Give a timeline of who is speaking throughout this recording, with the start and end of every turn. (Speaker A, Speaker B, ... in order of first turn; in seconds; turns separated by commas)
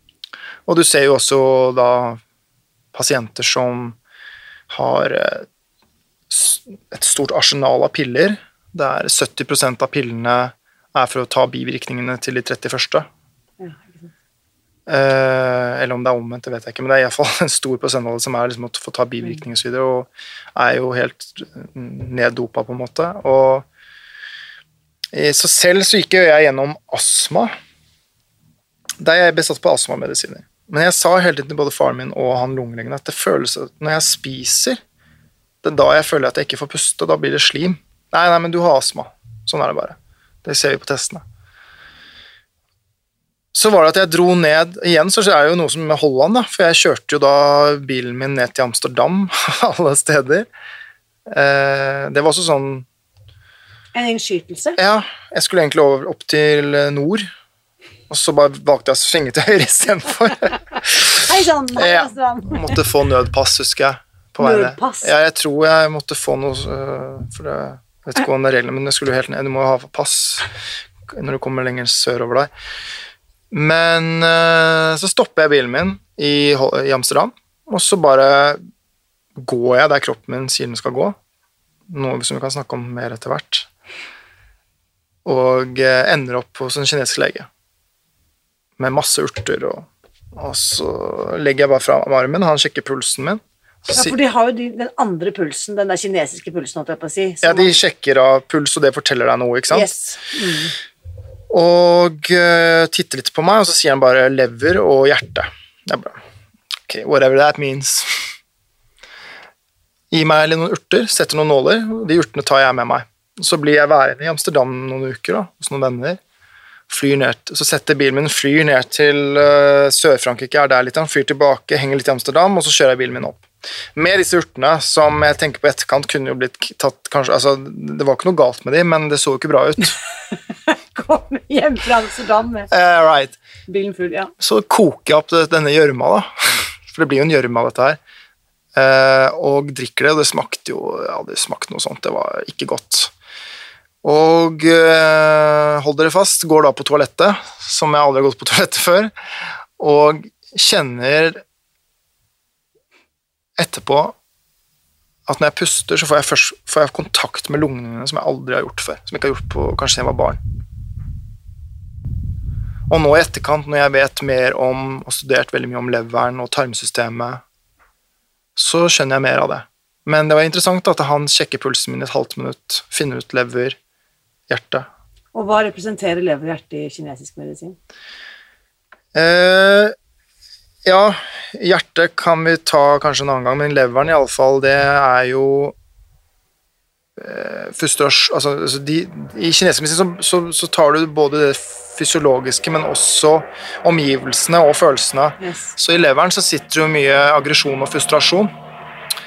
Speaker A: 0.7-2.2, Speaker A: 2.9-4.0, Speaker A: 4.7-5.5, Speaker A: 6.3-13.1, Speaker B: 13.6-14.1, Speaker A: 14.9-23.6, Speaker A: 25.1-27.5, Speaker A: 29.0-34.8, Speaker A: 35.6-41.2, Speaker A: 43.5-50.5, Speaker A: 51.3-52.9, Speaker B: 53.9-54.8, Speaker A: 54.8-57.3, Speaker A: 58.1-70.5, Speaker B: 61.0-62.8, Speaker B: 64.4-65.1, Speaker A: 71.1-72.5, Speaker A: 73.5-78.6, Speaker A: 79.4-81.1, Speaker A: 81.9-83.7, Speaker A: 85.2-87.5, Speaker A: 88.8-94.1, Speaker B: 93.9-97.8, Speaker A: 97.4-99.9, Speaker B: 99.7-100.7, Speaker A: 101.5-106.2, Speaker A: 106.9-108.2, Speaker A: 110.1-116.2, Speaker A: 116.9-130.0, Speaker B: 130.7-132.7, Speaker A: 132.7-133.4, Speaker B: 133.7-134.3, Speaker A: 134.4-138.0, Speaker A: 138.7-143.1, Speaker A: 144.0-149.1, Speaker A: 149.8-151.4, Speaker A: 153.6-154.1, Speaker A: 155.3-160.4, Speaker A: 162.9-167.4, Speaker A: 168.6-173.8, Speaker A: 174.5-174.9, Speaker B: 175.3-177.8, Speaker A: 179.1-179.9, Speaker A: 180.8-185.7, Speaker A: 187.2-198.5, Speaker B: 195.4-195.7